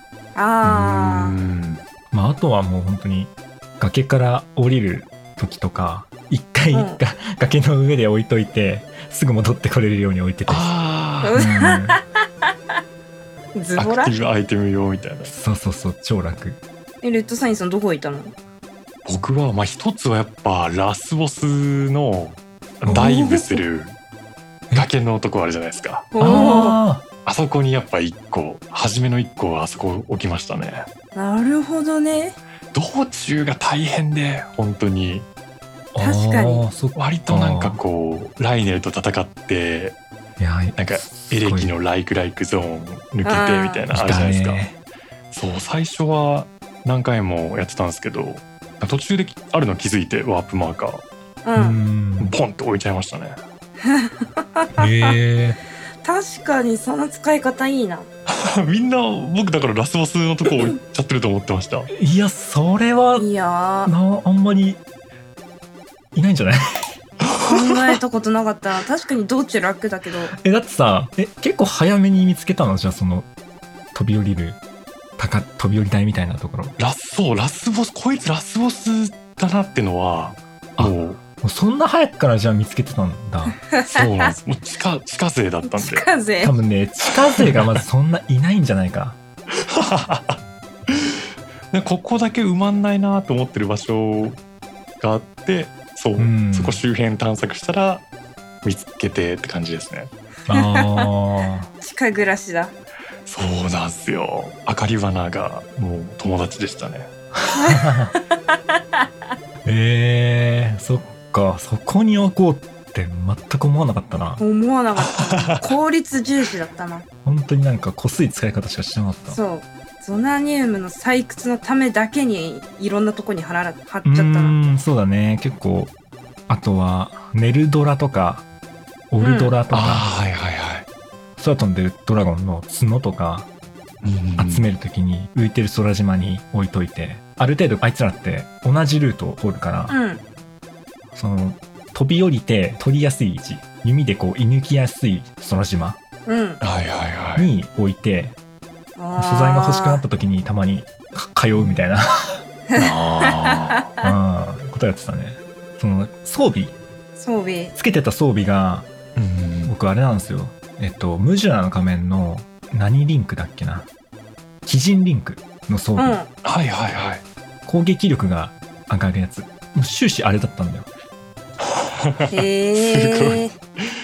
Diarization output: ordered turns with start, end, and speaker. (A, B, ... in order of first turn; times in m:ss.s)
0:00.4-0:01.4 A
0:00.6-0:01.8 B
0:02.1-0:10.7 C
0:06.7-0:07.0 A
0:10.5-0:11.4 B
0:11.2-0:12.0 A
0:11.4-0:12.0 C
0:13.6-0:14.1 A
0:13.8-0:15.3 B
0:15.3-0:16.6 C
0:17.0-0:18.3 A
0:19.0-0:24.0 B
0:22.9-0:23.6 A
0:24.7-0:26.1 B
0:26.1-0:26.8 A
0:26.2-0:27.0 C
0:27.2-0:30.9 B
0:31.2-0:32.4 A
0:32.7-0:35.3 B
0:35.9-0:37.8 C
0:36.0-0:36.6 A
0:37.0-0:40.0 B
0:40.4-0:41.7 C
0:40.8-0:44.6 B
0:43.2-0:43.8 A
0:43.9-0:44.8 C
0:45.3-0:51.0 B
0:51.4-0:51.8 A
0:51.6-0:52.4 C
0:52.2-0:53.4 B
0:53.8-0:55.2 A
0:54.8-0:55.6 C
0:56.0-0:58.1 A
0:58.3-1:01.9 B
1:01.9-1:03.3 C
1:03.2-1:03.9 A
1:03.8-1:04.8 C
1:06.1-1:07.0 C
1:07.3-1:08.0 B
1:07.4-1:10.3 A
1:10.3-1:13.3 C
1:13.9-1:14.6 C
1:15.2-1:16.7 C
1:16.8-1:21.2 B
1:20.8-1:23.6 C
1:23.7-1:24.3 A
1:23.9-1:26.1 B
1:25.7-1:26.6 A
1:26.4-1:29.2 C
1:27.4-1:27.8 B
1:29.5-1:34.4 B
1:35.0-1:38.0 B
1:36.2-1:36.8 C
1:38.6-1:40.1 B
1:40.5-1:41.7 C
1:40.5-1:41.1 A
1:41.8-1:42.7 A
1:43.3-1:47.1 B
1:47.5-1:48.1 C
1:47.5-1:48.2 A
1:49.6-1:54.4 C
1:54.4-1:57.0 A
1:55.0-1:55.8 B
1:57.2-1:59.4 C
1:59.3-2:04.5 A
2:04.0-2:05.9 C
2:06.5-2:08.4 C
2:09.1-2:10.1 C
2:09.2-2:09.6 A
2:09.7-2:10.9 B
2:11.4-2:13.5 C
2:14.0-2:14.7 B
2:14.4-2:20.0 C
2:19.9-2:20.2 A
2:21.1-2:26.0 C
2:26.3-2:26.6 A
2:26.6-2:27.5 B
2:27.4-2:28.4 C
2:29.0-2:30.0 A
2:29.2-2:32.4 C
2:32.7-2:33.7 A
2:32.8-2:33.9 B
2:34.0-2:36.8 C
2:37.2-2:37.8 A
2:37.8-2:38.9 C
2:39.2-2:39.7 B
2:39.7-2:43.9 C
2:44.6-2:46.2 C
2:46.0-2:46.3 A
2:46.4-2:47.2 B
2:47.7-2:50.9 C
2:52.0-2:53.5 B
2:52.3-2:53.5 A